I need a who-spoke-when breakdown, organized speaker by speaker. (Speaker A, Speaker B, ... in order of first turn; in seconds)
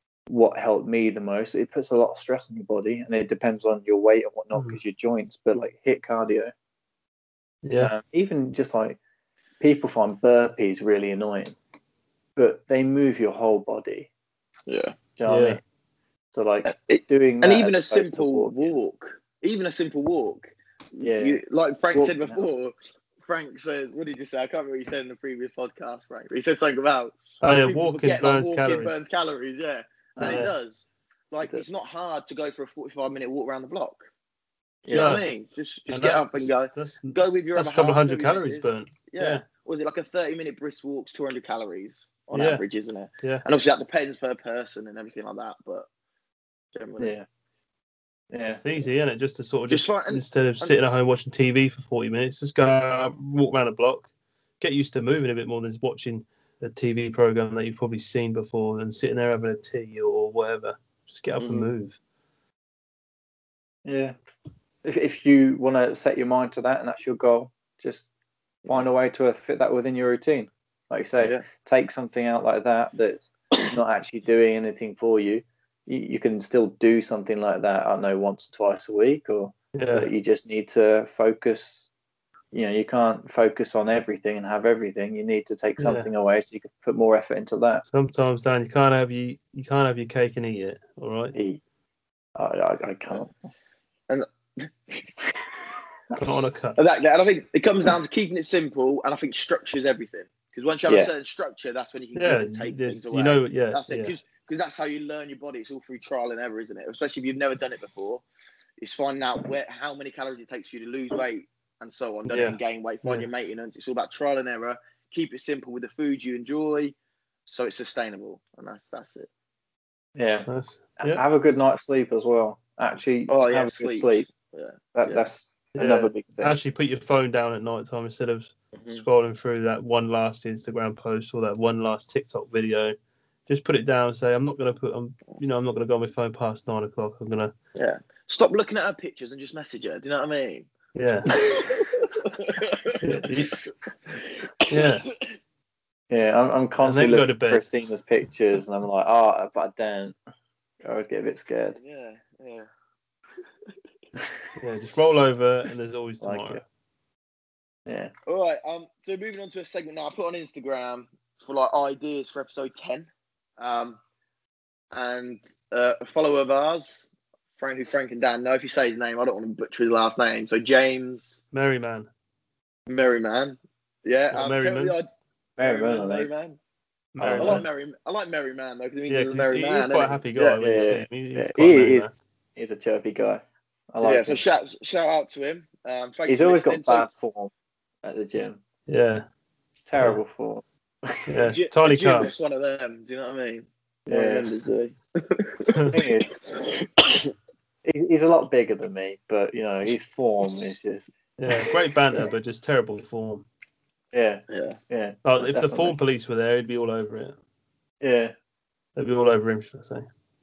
Speaker A: 0.3-6.5, 7.8-9.0, 9.6-11.6, 12.3-14.1, 15.2-15.6, 16.3-18.7, 21.0-21.4, 21.9-22.4, 30.2-30.4, 34.8-35.2, 47.0-47.2, 48.3-48.6, 63.8-64.2, 64.8-68.0, 68.7-81.9, 82.5-87.8, 91.3-91.6, 92.3-93.3, 100.8-101.1, 120.2-124.3, 124.9-126.6, 146.1-150.2, 150.8-151.8, 156.2-156.6, 157.8-158.1, 175.6-176.3, 177.2-177.6, 180.6-184.4, 186.3-187.5, 188.0-188.6, 189.8-191.3, 194.1-194.5, 195.9-196.3, 197.8-201.1, 204.1-205.9, 208.0-208.3
Speaker B: 7.6-7.9, 15.2-15.6, 27.4-28.9, 30.2-30.5, 34.9-35.3, 35.9-39.4, 42.3-42.6, 48.6-54.1, 54.6-62.0, 79.7-80.1, 85.8-86.1, 87.9-91.3, 96.2-96.8, 102.1-104.1, 112.3-113.3, 120.5-121.2, 125.8-132.9, 133.5-137.5, 140.9-141.3, 143.0-143.6, 144.7-145.0, 146.8-147.6, 154.6-156.6, 171.5-172.1, 174.3-174.9, 177.1-177.7, 179.1-182.1, 188.9-189.2, 191.3-192.4, 195.7-196.0, 201.4-203.4, 205.2-207.3, 208.9-210.1
Speaker C: 14.7-14.9, 16.6-34.1, 34.9-45.9, 46.7-47.1, 49.7-50.7, 61.4-61.7, 94.1-95.0, 96.8-108.2, 108.8-116.9, 117.5-119.3, 123.3-125.2, 128.8-129.0, 137.8-140.7, 141.3-143.2, 144.1-145.3, 151.8-152.7, 158.3-164.0, 164.9-171.4, 172.9-175.1, 175.6-176.6, 177.4-180.6, 184.0-187.1, 191.4-195.8, 196.5-197.3, 204.5-204.8